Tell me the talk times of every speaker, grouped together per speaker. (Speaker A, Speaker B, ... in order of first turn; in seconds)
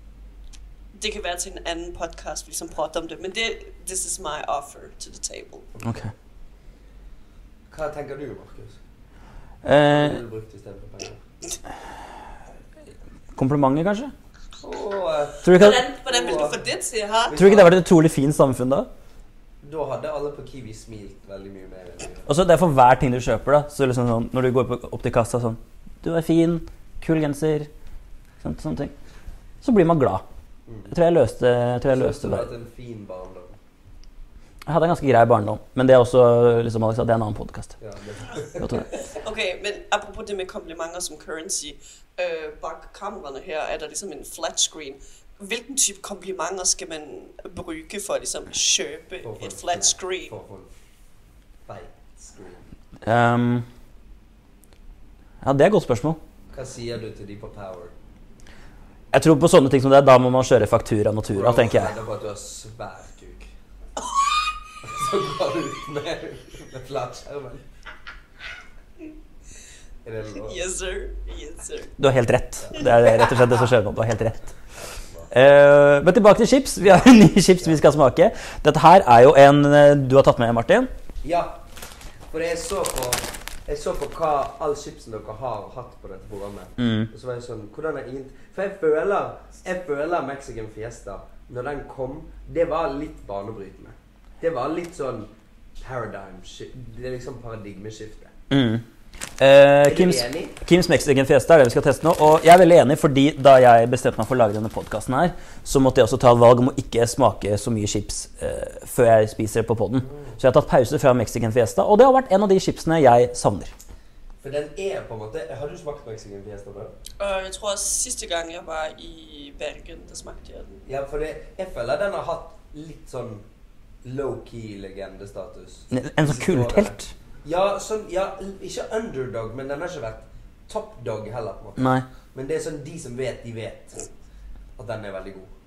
Speaker A: 0.9-5.7, 15.5-17.4, 39.2-50.3, 70.4-71.9, 73.0-73.4, 117.2-120.8
Speaker B: 5.8-6.1, 7.7-8.8, 9.9-11.2, 14.6-16.6, 17.3-17.8, 19.6-22.3, 30.7-30.9, 31.9-33.6, 37.8-39.0, 49.2-50.7, 51.7-52.6, 56.5-57.9, 61.3-63.5, 64.8-67.7, 70.0-70.6, 81.2-81.6, 82.3-98.3, 99.8-100.6, 110.0-110.4, 114.4-116.9, 120.9-123.5, 124.0-134.1, 134.8-135.5
Speaker C: 5.8-6.1, 9.6-10.2, 13.4-14.1, 15.4-15.8, 17.3-18.9, 22.3-27.7, 28.4-28.9, 29.6-30.2, 30.9-32.5, 34.7-37.7, 38.6-38.9, 53.0-53.7, 55.4-56.2, 59.1-61.9, 72.0-74.4, 75.3-80.9, 86.8-87.1, 98.5-98.8, 99.4-113.7, 125.9-127.1, 131.8-132.1